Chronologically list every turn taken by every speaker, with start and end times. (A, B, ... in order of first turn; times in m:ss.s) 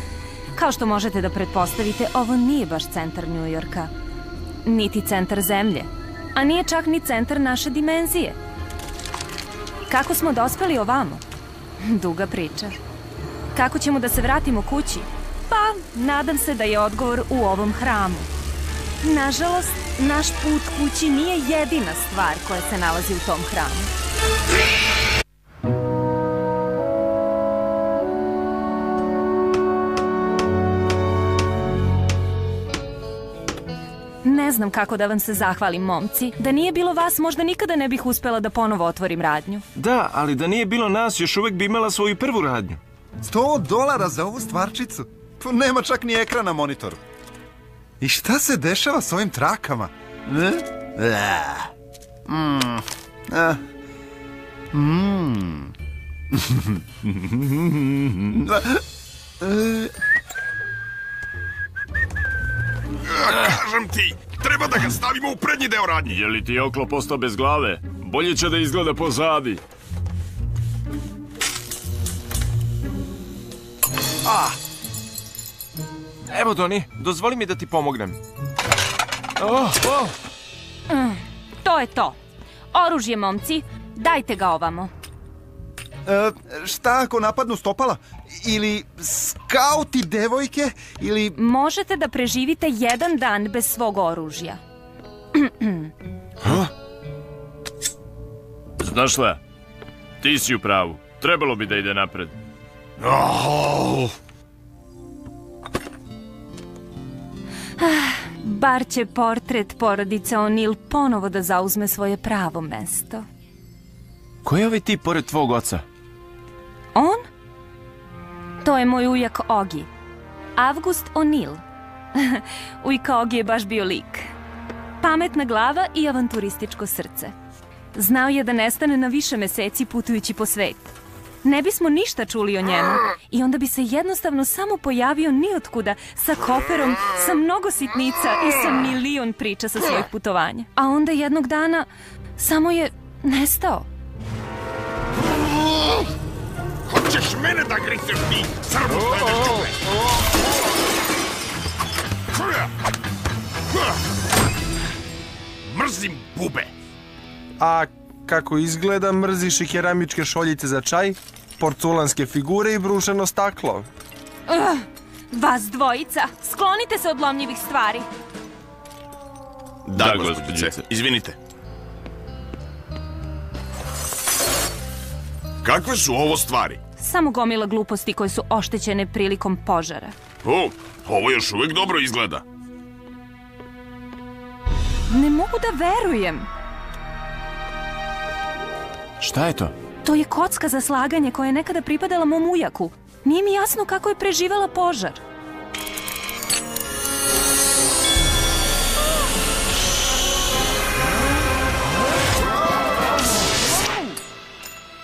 0:00.5-0:03.9 A
0:04.6-0:08.4 A
0:09.9-0:11.2 A
0:11.8-0:12.8 A
0:13.5-0:18.3 A
0:19.0-0:23.9 A
0:34.2-0:39.7 A
0:39.8-0:42.8 B
0:43.2-0:47.0 C
0:48.0-0:51.7 C
0:52.3-0:53.6 C
0:54.7-0:55.7 C
0:56.3-0:58.8 C
0:59.4-0:59.9 C
1:03.0-1:06.2 D
1:06.2-1:09.6 E
1:14.3-1:14.5 B
1:16.3-1:18.2 B
1:19.4-1:20.1 B
1:20.9-1:22.2 A
1:22.7-1:24.9 A
1:26.0-1:31.4 C
1:31.3-1:34.6 A
1:35.3-1:35.9 A
1:38.8-1:39.4 E
1:40.2-1:42.3 E
1:43.0-1:44.1 D
1:47.8-1:53.2 A
1:54.4-1:55.8 B
1:56.9-1:57.2 A
1:58.6-1:59.9 A
2:00.6-2:01.6 A
2:02.1-2:04.3 A
2:05.0-2:07.3 A
2:08.0-2:10.9 A
2:11.4-2:23.9 A
2:26.9-2:29.8 D
2:32.3-2:32.7 D
2:35.7-2:36.7 D
2:37.6-2:43.9 F
2:44.5-2:48.1 A
2:49.9-2:51.4 D
2:50.0-2:50.8 E
2:55.6-2:56.8 D
2:57.0-3:00.2 A
3:00.4-3:02.4 D
3:05.1-3:06.5 A
3:09.2-3:09.7 B
3:10.0-3:15.2 A